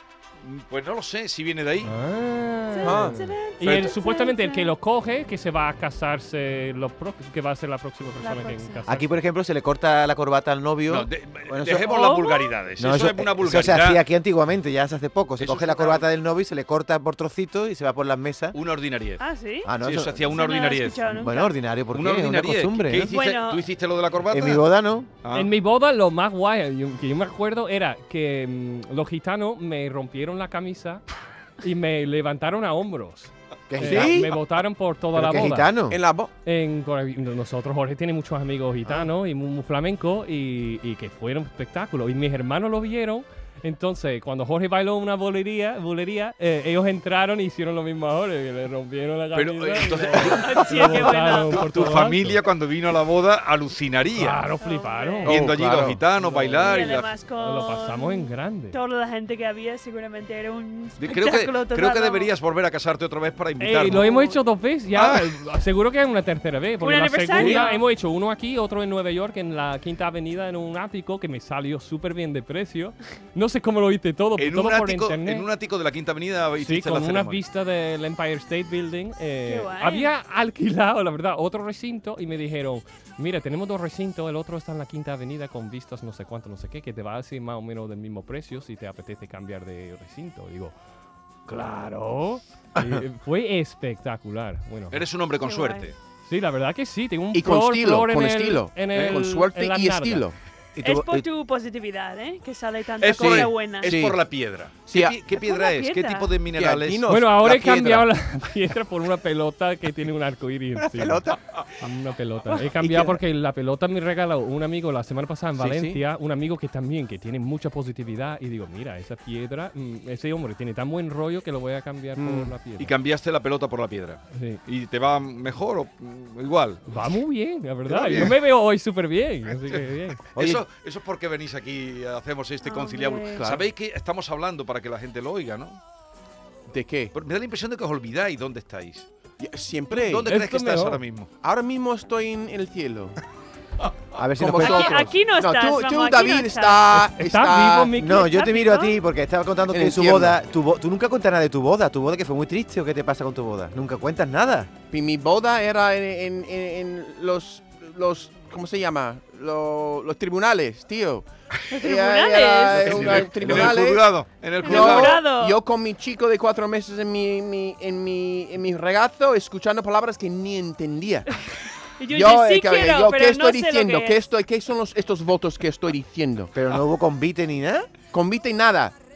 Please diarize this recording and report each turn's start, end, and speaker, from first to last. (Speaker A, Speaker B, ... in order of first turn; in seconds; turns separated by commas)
Speaker A: 0.4-1.9, Speaker B: 1.8-9.1, Speaker C: 2.7-4.7, Speaker D: 2.8-3.2, Speaker A: 3.6-3.9, Speaker C: 8.2-8.8, Speaker E: 8.9-11.9, Speaker A: 10.9-14.0, Speaker C: 11.8-12.5, Speaker E: 12.8-18.6, Speaker A: 15.4-16.1, Speaker A: 18.5-19.2, Speaker C: 19.2-21.5, Speaker E: 19.6-20.2, Speaker A: 19.8-21.1, Speaker E: 21.1-23.1, Speaker A: 21.9-24.6, Speaker C: 23.1-23.6, Speaker E: 24.3-25.1, Speaker A: 25.2-25.5, Speaker B: 25.3-31.0, Speaker B: 31.6-35.8, Speaker E: 33.7-34.3, Speaker D: 33.8-34.3, Speaker E: 35.1-36.0, Speaker D: 35.9-36.3, Speaker B: 36.4-52.4, Speaker A: 49.3-54.4, Speaker C: 50.1-51.7, Speaker B: 54.1-55.4, Speaker C: 54.6-55.3, Speaker D: 55.2-56.0, Speaker A: 55.3-57.1, Speaker B: 56.1-56.9, Speaker C: 56.6-62.3, Speaker B: 57.4-58.8, Speaker A: 61.0-64.1, Speaker B: 63.6-75.5, Speaker C: 63.8-64.4, Speaker A: 64.9-65.3, Speaker C: 66.8-67.8, Speaker D: 67.4-67.6, Speaker A: 74.4-77.4, Speaker B: 76.6-90.7, Speaker C: 79.5-80.1, Speaker B: 91.5-95.0, Speaker A: 94.9-96.0, Speaker C: 95.4-95.9, Speaker B: 96.2-100.2, Speaker D: 97.3-100.4, Speaker A: 98.9-99.2, Speaker E: 100.8-101.2, Speaker C: 100.8-103.9, Speaker A: 103.0-107.0, Speaker D: 103.8-104.2, Speaker D: 104.9-105.2, Speaker C: 105.3-106.3, Speaker D: 106.5-108.1, Speaker B: 107.1-111.2, Speaker D: 110.8-111.5, Speaker B: 111.8-122.9, Speaker D: 112.7-113.2, Speaker D: 115.6-116.0, Speaker D: 122.2-122.5, Speaker A: 122.8-126.9, Speaker B: 124.3-124.6, Speaker B: 126.9-130.2, Speaker A: 127.9-128.4, Speaker A: 129.6-135.8, Speaker E: 130.4-130.6, Speaker C: 132.6-133.4, Speaker D: 133.4-133.6, Speaker D: 136.7-137.1, Speaker A: 137.1-139.1, Speaker D: 139.4-140.3, Speaker A: 139.9-141.3, Speaker B: 140.3-141.0, Speaker D: 141.4-143.2, Speaker E: 144.2-145.1, Speaker D: 144.2-147.9, Speaker C: 144.6-146.9, Speaker B: 146.9-148.4, Speaker E: 147.9-154.7, Speaker C: 148.2-148.9, Speaker D: 149.7-150.4, Speaker D: 154.9-164.1, Speaker C: 161.7-163.4, Speaker A: 162.8-165.2, Speaker C: 164.6-165.6, Speaker D: 164.6-171.3, Speaker C: 172.0-174.2, Speaker D: 172.1-176.5, Speaker E: 176.5-177.9, Speaker D: 178.1-178.9